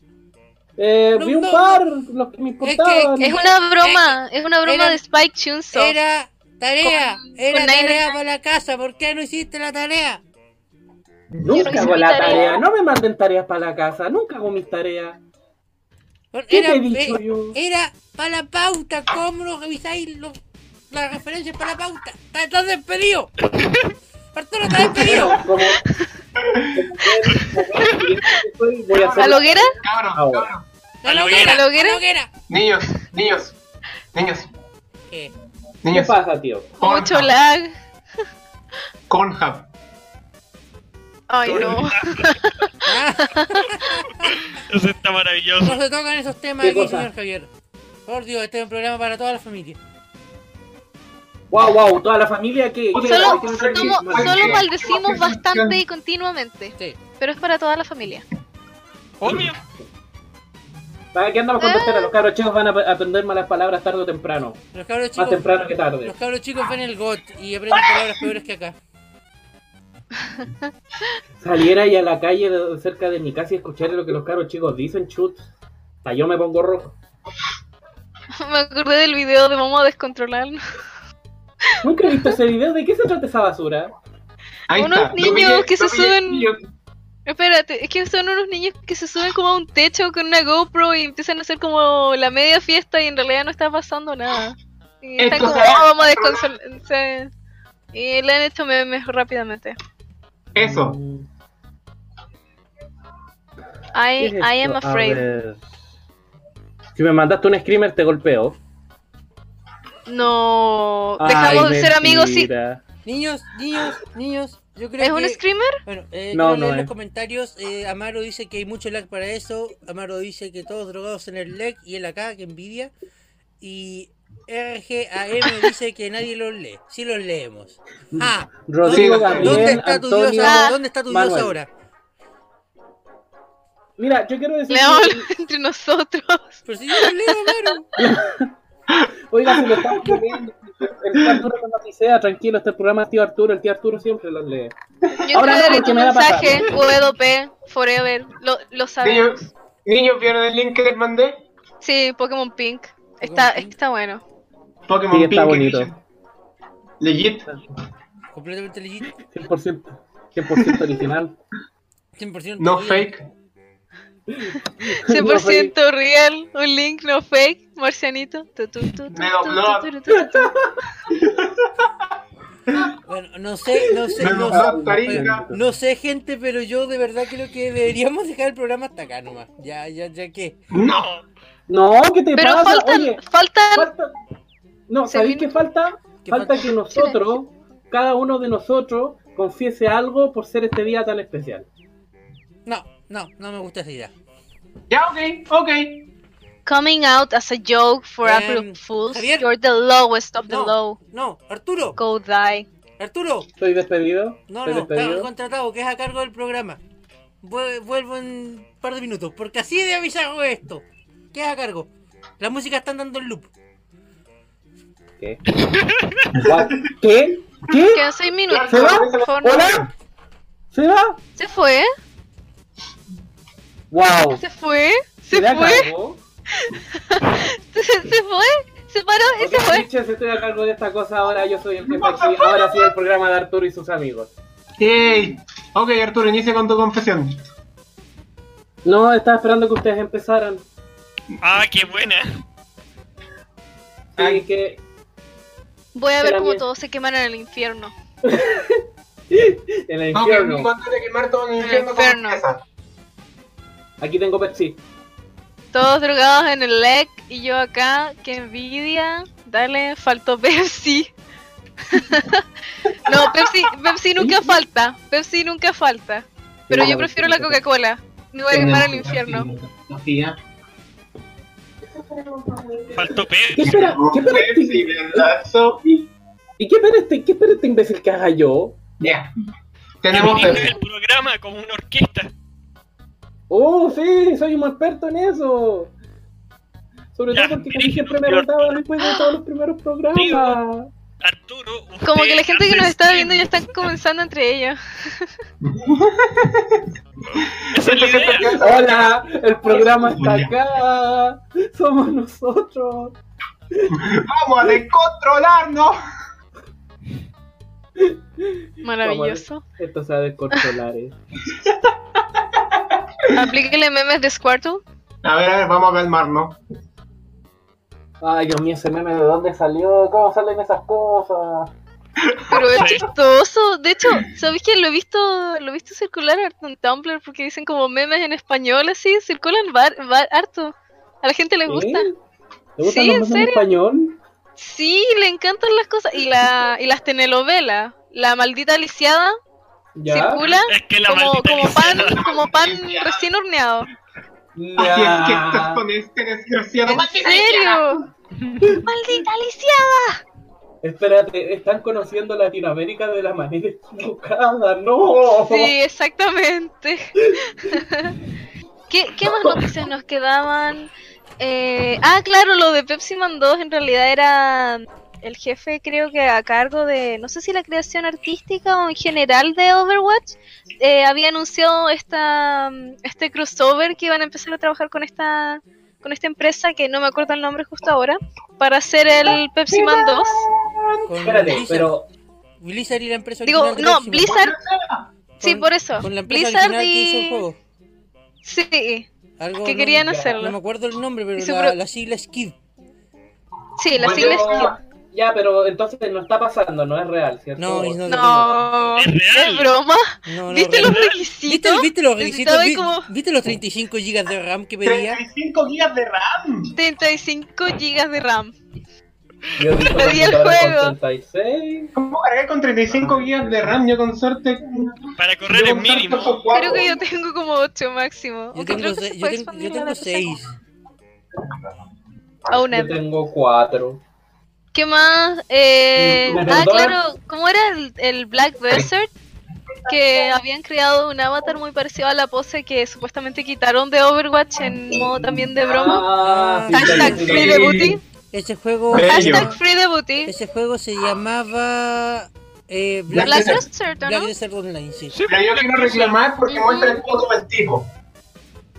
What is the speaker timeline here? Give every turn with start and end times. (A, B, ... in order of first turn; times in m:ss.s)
0:00.8-0:03.4 A
0:01.2-0:01.8 B
0:02.6-0:05.0 B
0:03.2-0:06.0 C
0:05.7-0:10.2 B
0:06.8-0:08.1 C
0:11.3-0:12.0 D
0:11.4-0:15.2 A
0:11.5-0:12.6 C
0:16.3-0:20.4 B
0:16.5-0:17.6 A
0:20.9-0:23.3 B
0:23.4-0:23.9 E
0:24.3-0:25.4 B
0:25.0-0:25.9 A
0:26.6-0:30.5 A
0:28.9-0:30.7 D
0:29.2-0:29.7 C
0:31.0-0:32.3 B
0:31.0-0:31.7 E
0:31.3-0:32.0 C
0:32.5-0:33.6 D
0:34.1-0:34.5 D
0:35.8-0:36.2 D
0:35.9-0:36.7 A
0:36.8-0:37.3 D
0:36.8-0:37.7 C
0:39.1-0:39.7 D
0:41.3-0:42.7 C
0:41.4-0:42.4 E
0:42.8-0:44.3 B
0:43.2-0:43.6 C
0:44.3-0:45.8 E
0:45.6-0:47.5 B
0:46.6-0:47.1 A
0:48.1-0:49.8 B
0:51.5-0:54.7 A
0:52.9-0:55.8 D
0:53.0-0:58.3 C
0:59.2-0:59.6 E
1:01.1-1:04.6 A
1:01.6-1:02.1 C
1:04.7-1:05.5 B
1:05.2-1:06.1 A
1:06.0-1:08.8 B
1:11.4-1:15.5 A
1:16.0-1:17.0 A
1:18.4-1:20.6 C
1:21.6-1:22.4 C
1:21.8-1:23.9 A
1:24.7-1:26.6 D
1:24.7-1:26.5 C
1:27.3-1:37.3 C
1:35.2-1:36.4 D
1:37.9-1:39.8 C
1:40.5-1:41.0 D
1:40.6-1:41.3 A
1:43.9-1:45.2 C
1:44.2-1:45.6 A
1:47.0-1:48.6 A
1:50.1-1:52.5 C
1:51.2-1:52.8 A
1:53.0-2:02.9 B
1:55.0-1:55.8 C
1:56.3-1:56.9 A
2:03.6-2:11.7 B
2:08.1-2:11.6 A
2:08.9-2:09.8 D
2:10.4-2:10.8 C
2:14.0-2:15.3 A
2:14.7-2:17.7 C
2:16.6-2:17.9 B
2:18.0-2:18.5 A
2:18.9-2:20.2 D
2:19.3-2:24.8 A
2:21.2-2:21.4 D
2:25.2-2:29.5 C
2:25.3-2:26.7 A
2:29.0-2:31.5 D
2:31.8-2:34.2 C
2:33.2-2:33.8 B
2:34.9-2:36.0 D
2:35.1-2:35.9 A
2:37.0-2:37.5 D
2:38.3-2:39.2 B
2:39.2-2:41.4 A
2:42.2-2:43.1 B
2:42.6-2:43.3 D
2:44.3-2:45.7 A
2:45.0-2:50.6 C
2:49.1-2:49.9 D
2:50.1-2:50.7 A
2:51.1-2:51.7 D
2:53.0-3:00.6 B
2:54.2-2:55.6 A
2:54.2-2:55.5 D
3:00.7-3:01.1 D
3:00.8-3:01.2 E
3:01.7-3:03.2 A
3:02.4-3:03.9 C
3:03.8-3:04.1 A
3:04.9-3:11.7 A
3:05.1-3:05.6 C
3:06.2-3:06.7 B
3:06.9-3:07.2 C
3:12.7-3:14.1 B
3:14.9-3:16.1 D
3:16.7-3:21.0 C
3:18.2-3:19.5 B
3:20.5-3:22.0 B
3:22.0-3:22.7 C
3:23.0-3:23.5 B
3:23.6-3:25.3 A
3:24.5-3:26.8 B
3:27.4-3:33.5 B
3:35.5-3:36.3 E
3:36.4-3:36.8 D
3:36.4-3:38.1 A
3:37.9-3:39.8 C
3:38.5-3:39.9 D
3:38.7-3:39.9 A
3:40.7-3:41.2 A
3:41.4-3:41.9 C
3:43.9-3:44.4 A
3:44.4-3:45.9 C
3:45.3-3:46.2 A
3:46.6-3:49.9 C
3:49.4-3:54.3 A
3:51.9-3:52.6 D
3:52.4-3:52.9 C
3:54.8-3:57.4 D
3:58.8-4:00.6 A
4:01.4-4:02.3 E
4:04.2-4:04.8 A
4:04.2-4:04.4 D
4:06.0-4:08.0 C
4:06.2-4:06.6 A
4:08.2-4:10.7 A
4:10.1-4:12.6 D
4:11.6-4:12.4 C
4:14.0-4:14.8 A
4:15.7-4:21.1 C
4:21.9-4:22.4 C
4:23.0-4:29.5 C
4:24.2-4:24.6 A
4:26.7-4:27.6 A
4:28.5-4:30.4 D
4:32.9-4:34.0 E
4:33.6-4:35.3 A
4:33.6-4:36.1 D
4:36.6-4:38.8 A
4:39.0-4:39.3 D
4:40.0-4:40.8 D
4:40.1-4:42.3 E
4:43.5-4:45.9 A
4:47.2-4:50.9 A
4:47.3-4:48.8 E
4:49.0-4:49.3 C
4:50.1-4:50.6 E
4:51.2-4:53.9 E
4:52.1-4:55.3 C
4:55.6-5:00.6 D
4:57.7-4:58.6 E
4:58.6-5:03.2 A
5:03.9-5:06.0 D
5:08.0-5:11.2 A
5:08.8-5:09.6 C
5:11.6-5:11.9 D
5:12.5-5:12.8 D
5:13.3-5:14.8 C
5:15.2-5:16.6 D
5:18.2-5:21.7 A
5:22.2-5:22.9 D
5:22.5-5:32.1 C
5:22.7-5:23.1 E
5:31.7-5:32.2 A
5:32.8-5:34.2 A
5:32.8-5:33.6 C
5:34.6-5:39.3 C
5:40.0-5:40.4 A
5:40.1-5:43.9 C
5:40.6-5:42.2 E
5:42.0-5:43.3 D
5:44.6-5:45.8 A
5:44.8-5:48.0 D
5:46.9-5:48.0 C
5:48.7-5:50.2 C
5:50.8-5:55.7 A
5:55.4-5:58.2 C
5:58.9-6:20.4 C
5:59.2-5:59.8 A
6:19.7-6:21.1 D
6:21.1-6:22.0 B
6:21.2-6:22.1 A
6:22.6-6:24.4 B
6:23.4-6:24.6 C
6:24.2-6:25.1 D
6:25.4-6:27.4 C
6:25.4-6:27.6 B
6:28.4-6:29.1 C
6:29.4-6:32.6 B
6:29.6-6:30.6 C
6:30.0-6:30.4 A
6:31.4-6:31.8 C
6:33.8-6:34.8 C
6:33.9-6:34.8 D
6:34.0-6:38.0 A
6:37.6-6:38.6 B
6:38.1-6:43.1 C
6:39.0-6:39.7 E
6:40.3-6:45.2 B
6:40.7-6:41.2 E
6:44.8-6:46.8 D
6:46.8-6:48.6 C
6:49.6-6:51.9 A
6:49.9-6:51.0 C
6:52.0-6:57.0 D
6:53.0-6:53.8 A
6:55.2-6:56.4 E
6:56.5-7:00.3 C
6:58.5-7:00.6 B
7:02.5-7:03.0 C
7:02.7-7:04.0 A
7:04.7-7:09.1 C
7:06.0-7:07.0 A
7:09.9-7:16.1 C
7:15.6-7:17.9 A
7:16.2-7:17.5 B
7:16.7-7:18.0 C
7:16.8-7:18.0 D
7:18.3-7:19.6 B
7:18.9-7:19.6 D
7:18.9-7:20.3 C
7:20.3-7:25.2 B
7:23.1-7:23.7 D
7:23.2-7:24.3 C
7:25.1-7:26.2 E
7:25.3-7:27.9 D
7:26.5-7:27.0 C